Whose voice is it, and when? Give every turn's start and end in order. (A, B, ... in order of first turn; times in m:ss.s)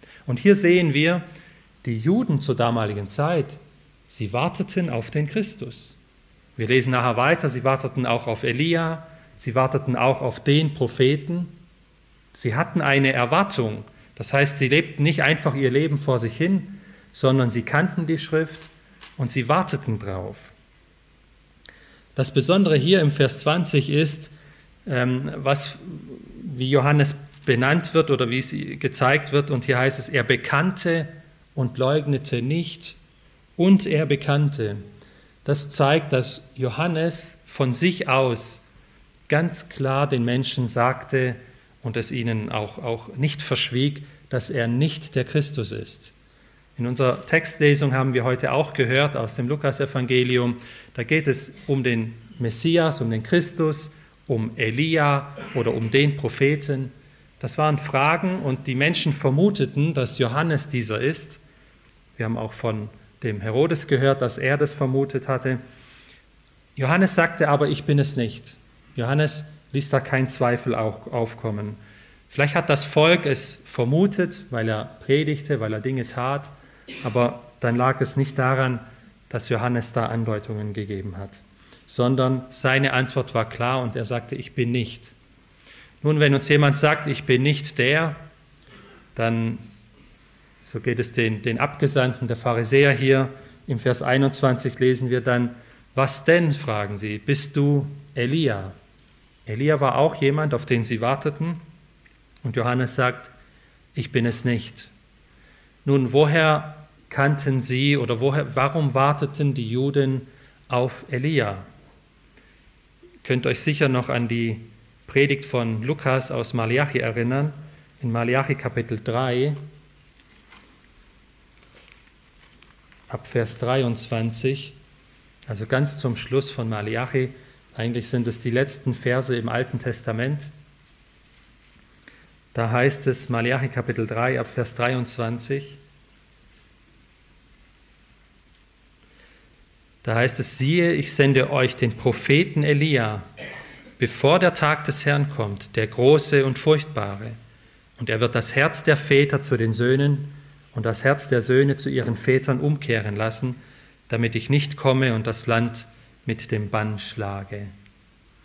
0:00.3-0:01.2 A
0:01.8-0:06.0 A
0:06.6-0:11.5 A
0:12.3-0:20.5 A
0:22.2-0:24.3 A
0:24.9-0:33.0 A
0:33.6-0:34.8 A
0:35.4-0:38.6 A
0:39.3-0:46.1 A
0:46.8-1:01.4 A
1:02.2-1:05.6 A
1:06.8-1:11.8 A
1:12.3-1:25.2 A
1:26.0-1:28.2 A
1:29.2-1:29.6 A
1:30.6-1:38.8 A
1:39.5-1:41.6 A
1:42.4-1:43.3 A
1:44.0-1:44.9 A
1:45.8-1:51.6 A
1:53.2-1:59.6 A
2:03.1-2:04.8 A
2:05.5-2:10.5 A
2:12.5-2:15.8 A
2:20.0-2:23.2 A
2:24.0-2:27.4 A
2:28.0-2:33.6 A
2:34.1-2:37.7 A